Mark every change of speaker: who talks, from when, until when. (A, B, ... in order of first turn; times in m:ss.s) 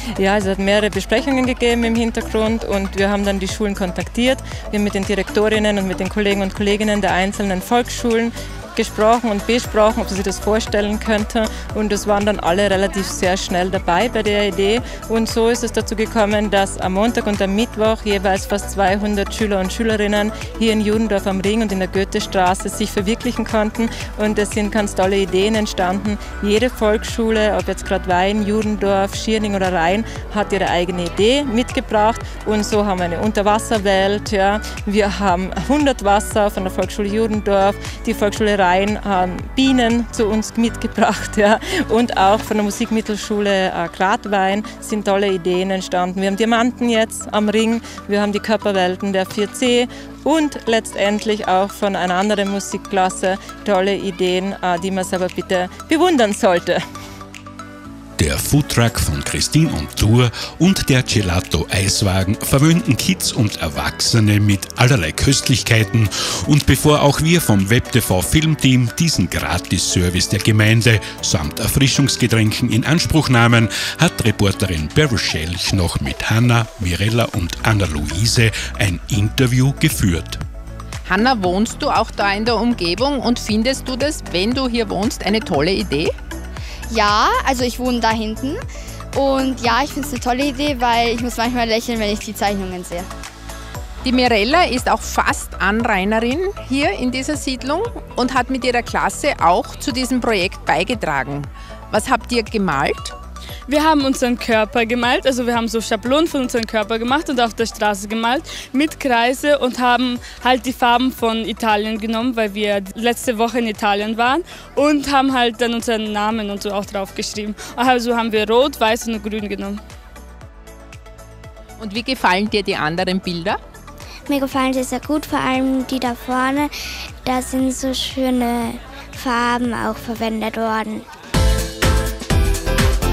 0:00.2-0:56.8 A
0:58.2-1:20.4 B
1:21.0-1:26.1 C
1:26.9-1:28.6 D
1:29.1-1:33.1 D
1:34.0-1:43.1 C
1:43.7-1:59.8 E
2:01.8-2:03.6 C
2:04.3-2:06.7 F
2:07.2-2:11.0 F